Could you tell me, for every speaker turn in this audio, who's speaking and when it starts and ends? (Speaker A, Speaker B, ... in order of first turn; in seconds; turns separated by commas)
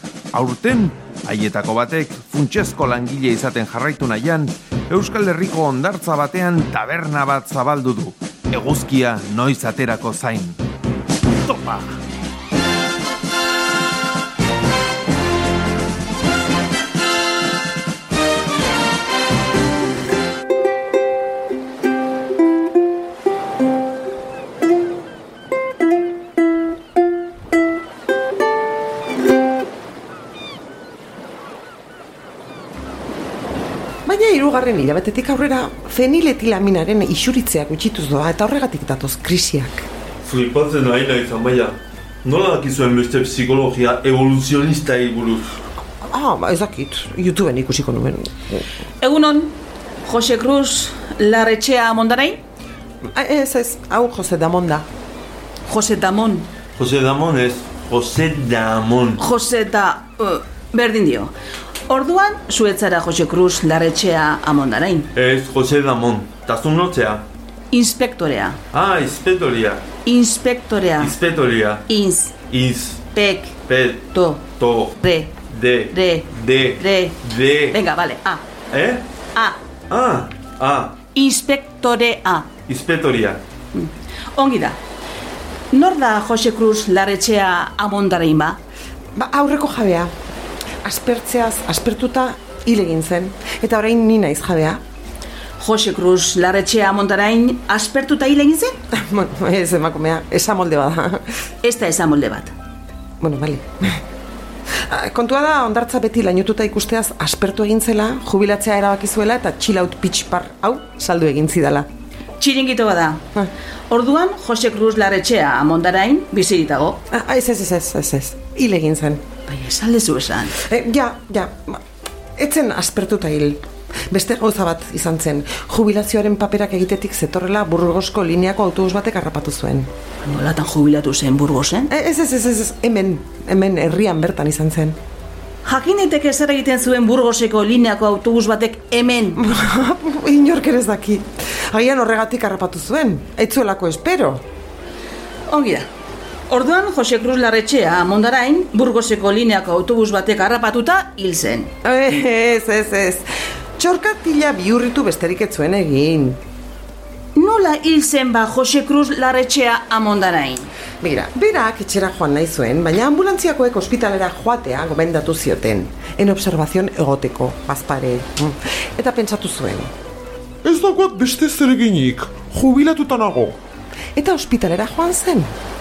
Speaker A: 0.3-10.6, Speaker A: 11.4-12.0, Speaker B: 34.0-39.9, Speaker C: 40.2-45.5, Speaker B: 46.0-48.6, Speaker D: 49.0-52.4, Speaker B: 53.1-54.9, Speaker D: 55.7-56.5, Speaker C: 56.8-59.2, Speaker D: 59.2-61.3, Speaker D: 61.9-65.1, Speaker C: 65.1-67.2, Speaker D: 67.7-68.6, Speaker C: 68.7-69.8, Speaker D: 70.0-71.1, Speaker C: 71.0-71.9, Speaker D: 71.9-72.3, Speaker C: 72.5-73.0, Speaker D: 73.1-73.6, Speaker C: 73.7-74.1, Speaker D: 74.1-74.5, Speaker C: 74.6-75.0, Speaker D: 75.0-75.3, Speaker C: 75.5-77.8, Speaker D: 75.9-78.4, Speaker C: 78.7-79.0, Speaker D: 79.3-79.6, Speaker C: 79.9-80.9, Speaker D: 81.1-82.5, Speaker C: 82.7-83.4, Speaker D: 83.7-84.8, Speaker D: 85.7-88.6, Speaker B: 89.2-90.1, Speaker B: 90.8-94.8, Speaker D: 95.6-98.7, Speaker B: 98.9-101.2, Speaker D: 101.6-102.5, Speaker B: 103.2-104.0, Speaker B: 104.9-111.9, Speaker D: 112.4-113.2, Speaker D: 113.9-117.0, Speaker B: 117.1-119.2, Speaker D: 119.5-120.6, Speaker B: 120.6-121.8, Speaker B: 122.4-129.9, Speaker D: 130.2-131.9, Speaker B: 131.9-135.0, Speaker D: 135.6-139.4, Speaker B: 139.4-144.4, Speaker D: 145.5-145.9, Speaker D: 146.5-151.7, Speaker B: 151.8-153.3, Speaker B: 153.8-156.4, Speaker D: 157.3-160.7, Speaker B: 161.0-169.9, Speaker E: 170.6-173.6, Speaker B: 174.2-175.5